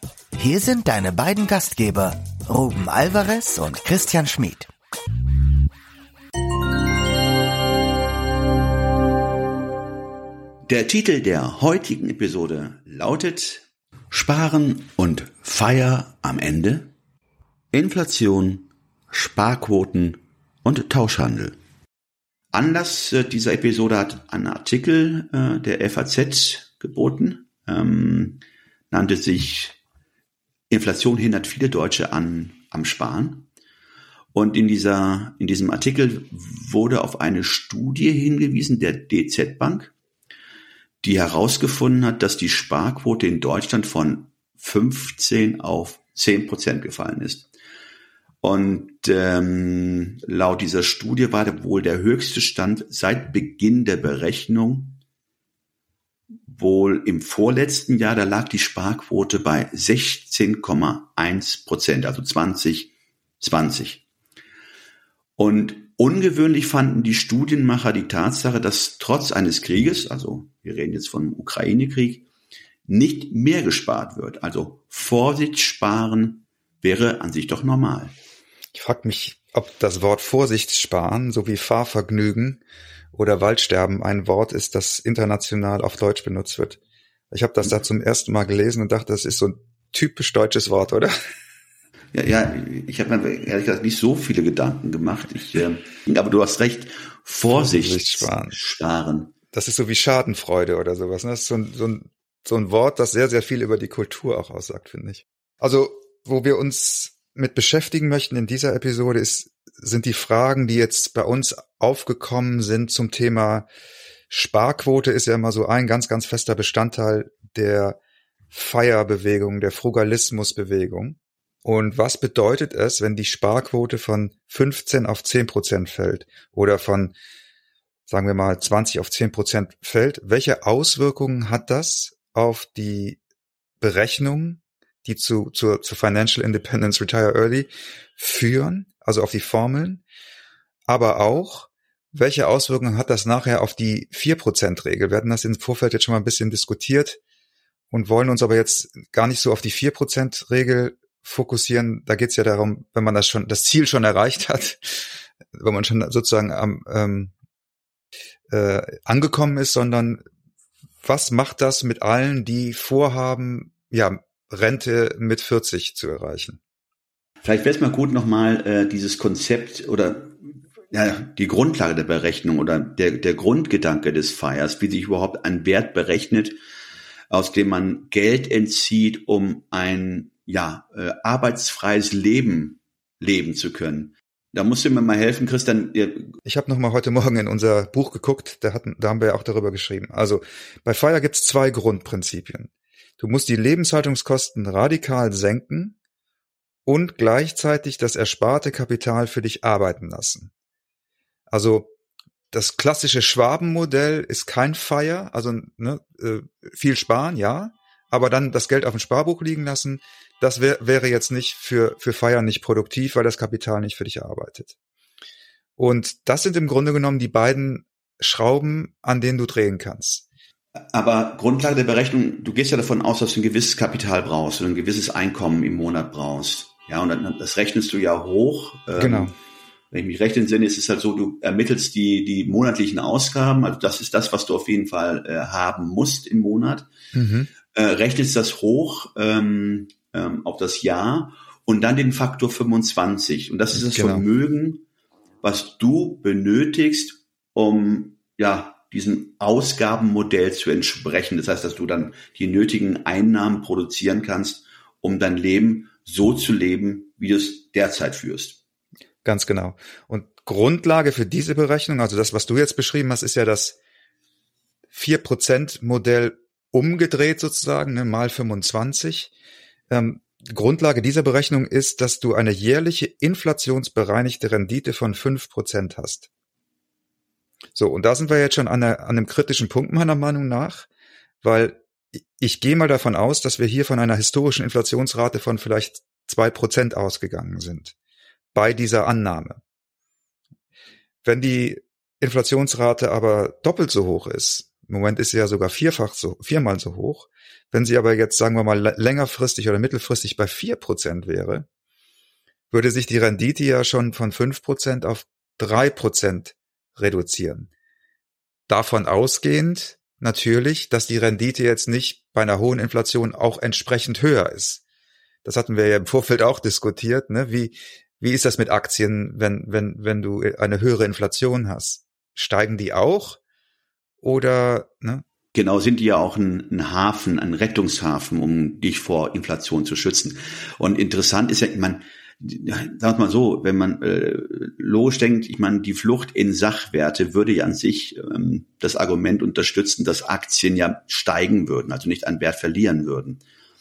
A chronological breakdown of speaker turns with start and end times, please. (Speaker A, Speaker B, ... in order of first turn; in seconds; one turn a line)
Speaker A: 0.4-4.7
Speaker B: 10.7-16.9
Speaker B: 17.7-21.6
Speaker B: 22.5-29.8
Speaker B: 30.7-33.5
Speaker B: 34.3-39.9
Speaker B: 41.0-47.5
Speaker B: 48.4-55.0
Speaker B: 56.5-64.0
Speaker B: 65.4-72.3
Speaker B: 72.9-78.1
Speaker C: 78.7-82.6
Speaker C: 83.1-86.8
Speaker C: 87.3-91.2
Speaker B: 92.1-99.3
Speaker C: 97.5-98.6
Speaker C: 99.5-113.7
Speaker C: 114.3-118.0
Speaker C: 118.5-127.1
Speaker C: 128.1-133.2
Speaker C: 133.8-140.0
Speaker C: 140.9-147.2
Speaker C: 147.9-157.3
Speaker C: 158.5-160.2
Speaker C: 161.0-166.6
Speaker B: 167.4-170.4
Speaker B: 170.9-176.6
Speaker B: 177.3-186.4
Speaker C: 186.4-195.9
Speaker C: 196.8-200.5
Speaker C: 201.5-201.9
Speaker C: 202.5-214.7
Speaker C: 215.8-220.2
Speaker B: 220.9-229.3
Speaker C: 229.0-229.3
Speaker B: 229.9-236.9
Speaker C: 237.1-237.5
Speaker B: 237.7-244.8
Speaker C: 243.7-244.2
Speaker B: 245.4-258.6
Speaker C: 259.2-263.8
Speaker C: 264.9-269.3
Speaker C: 269.9-276.3
Speaker C: 277.8-280.9
Speaker C: 281.4-287.9
Speaker C: 288.5-289.6
Speaker C: 291.2-301.7
Speaker C: 302.7-307.7
Speaker C: 308.7-314.8
Speaker C: 315.4-323.4
Speaker C: 324.2-325.2
Speaker B: 325.5-343.4